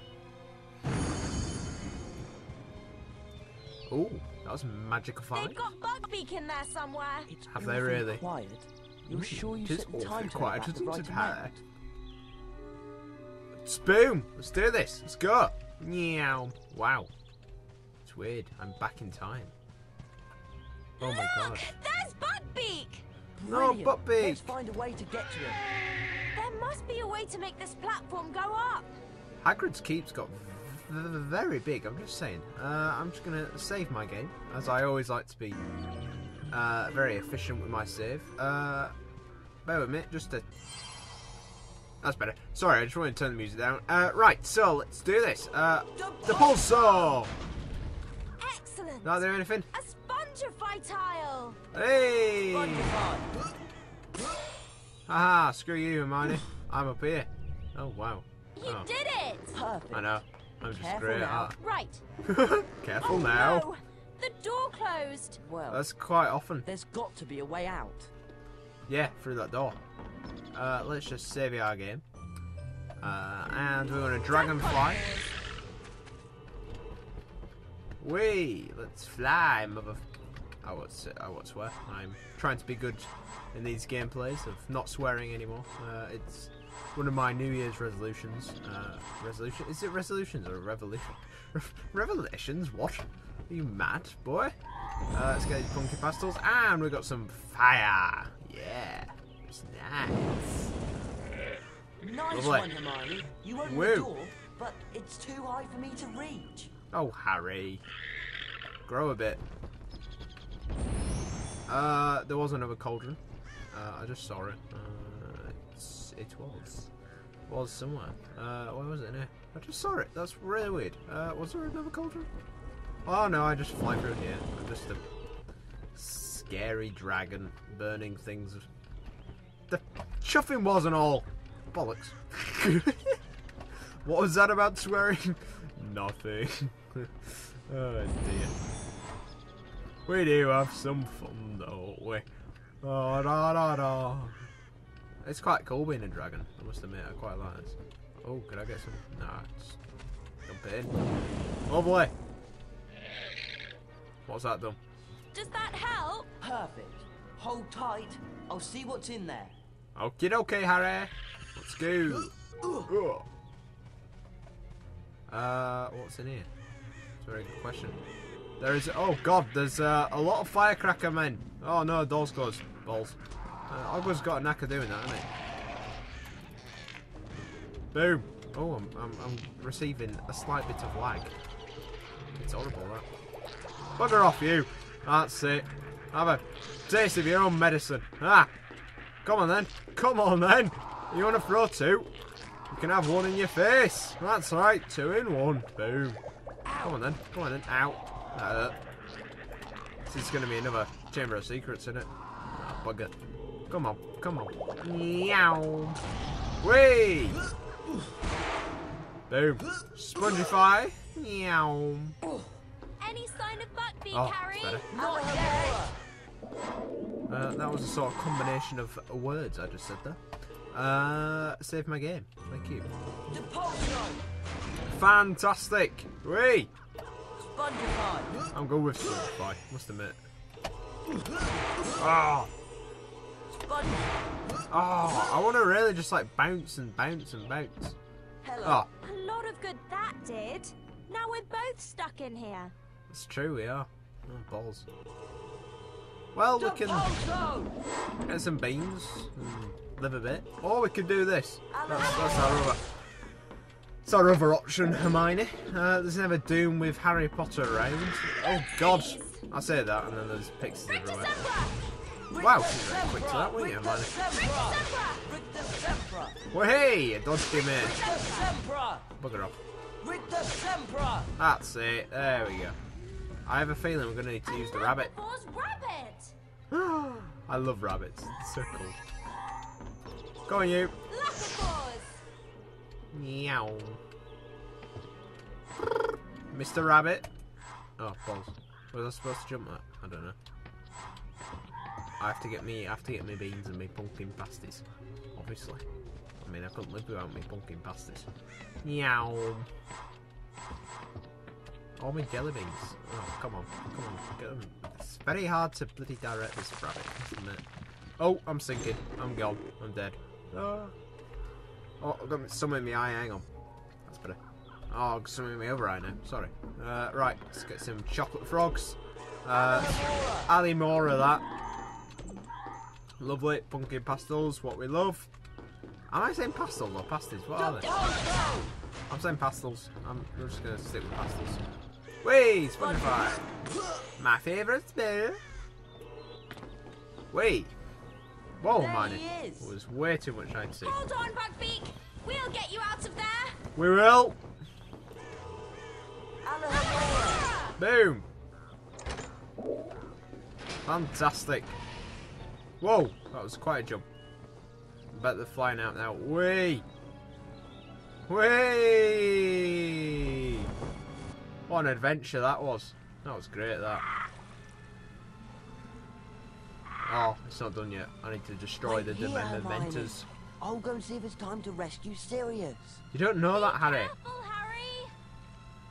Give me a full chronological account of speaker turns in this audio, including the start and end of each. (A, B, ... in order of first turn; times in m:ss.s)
0:03.9-0:05.6 A
0:05.3-0:07.3 B
0:07.3-0:11.6 C
0:07.5-0:08.2 A
0:09.1-0:11.6 A
0:13.6-0:17.1 A
0:18.0-0:19.5 A
0:21.0-0:23.0 B
0:21.0-0:21.7 A
0:23.4-0:25.6 C
0:23.5-0:24.5 A
0:26.3-0:29.0 B
0:29.4-0:35.6 A
0:36.5-0:38.9 A
0:39.6-0:40.4 A
0:42.0-0:47.3 A
0:46.0-0:47.1 C
0:48.4-0:51.6 B
0:49.0-0:49.7 A
0:51.7-0:53.0 A
0:52.5-0:53.3 C
0:55.1-0:58.9 A
0:58.6-0:59.6 B
0:59.5-1:01.6 C
0:59.9-1:01.6 A
1:01.6-1:02.0 B
1:02.3-1:03.7 A
1:03.0-1:05.4 B
1:05.4-1:05.8 C
1:05.7-1:06.7 A
1:06.6-1:08.1 C
1:08.9-1:09.8 A
1:10.5-1:12.0 A
1:13.0-1:15.0 A
1:14.3-1:15.3 B
1:18.0-1:20.0 A
1:20.6-1:34.5 A
1:35.1-1:40.7 A
1:42.0-1:46.7 C
1:42.3-1:42.7 A
1:43.6-1:44.1 A
1:46.9-1:47.8 A
1:48.9-1:49.4 A
1:51.7-1:53.2 A
1:53.7-1:56.9 A
1:57.5-2:02.3 A
2:03.1-2:05.0 A
2:06.0-2:08.7 A
2:09.7-2:13.2 A
2:14.0-2:18.5 A
2:20.1-2:22.3 A
2:22.8-2:24.4 A
2:25.2-2:29.8 A
2:30.5-2:30.9 A
2:31.7-2:32.1 A
2:34.3-2:34.8 A
2:35.3-2:36.3 B
2:36.4-2:39.6 C
2:40.0-2:43.3 A
2:45.3-2:46.5 A
2:47.2-2:48.0 A
2:48.6-2:53.2 A
2:53.7-2:55.3 A
2:57.9-3:01.3 A
3:02.4-3:03.1 A
3:04.0-3:08.5 A
3:09.2-3:12.1 A
3:12.7-3:16.2 A
3:16.7-3:17.0 C
3:16.8-3:18.8 A
3:20.1-3:23.1 A
3:23.7-3:26.0 A
3:26.6-3:27.4 A
3:29.3-3:32.2 A
3:33.0-3:35.8 B
3:34.1-3:34.8 A
3:34.9-3:36.0 C
3:37.3-3:40.2 A
3:40.7-3:42.9 A
3:43.3-3:44.2 C
3:44.9-3:46.7 A
3:47.4-3:48.4 C
3:48.5-3:50.2 A
3:51.9-3:52.5 A
3:53.5-3:54.1 C
3:54.7-3:58.0 A
3:58.4-3:58.8 C
3:58.6-3:58.9 A
3:59.0-4:02.7 B
4:03.1-4:04.9 A
4:06.3-4:07.2 A
4:06.6-4:07.7 C
4:08.3-4:12.8 A
4:11.7-4:12.7 C
4:14.0-4:21.5 A
4:18.4-4:19.4 B
4:20.8-4:21.8 B
4:22.3-4:24.1 A
4:22.3-4:26.4 C
4:24.4-4:25.2 B
4:26.5-4:28.0 A
4:27.7-4:28.6 B
4:27.9-4:29.1 C
4:29.2-4:29.6 A
4:30.0-4:31.3 C
4:31.4-4:32.8 A
4:33.5-4:35.1 A
4:34.5-4:36.3 B
4:36.7-4:39.0 A
4:40.5-4:40.9 A
4:41.1-4:42.1 B
4:43.1-4:44.0 A
4:46.5-4:47.3 A
4:48.0-4:50.4 A
4:52.2-4:55.8 A
4:56.4-4:58.3 A
4:58.8-4:59.7 A
5:02.0-5:07.6 A
5:08.2-5:10.9 A
5:12.0-5:13.5 A
5:14.1-5:14.4 A
5:14.9-5:21.4 A
5:19.5-5:20.5 C
5:23.2-5:25.3 A
5:26.1-5:28.0 A
5:27.6-5:28.7 C
5:29.1-5:31.6 A
5:32.2-5:33.4 A
5:32.8-5:33.2 C
5:34.2-5:35.4 A
5:37.3-5:37.7 A
5:38.6-5:41.0 A
5:38.7-5:39.7 C
5:40.8-5:43.6 B
5:43.8-5:44.4 A
5:46.4-5:47.5 C
5:47.3-5:47.7 B
5:47.8-5:48.3 A
5:50.9-5:51.8 A
5:52.8-5:54.0 A
5:55.1-5:56.8 A
5:58.3-6:00.6 A
6:01.7-6:04.1 A
6:07.0-6:10.3 A
6:08.8-6:13.0 C
6:13.1-6:14.1 A
6:13.5-6:15.1 B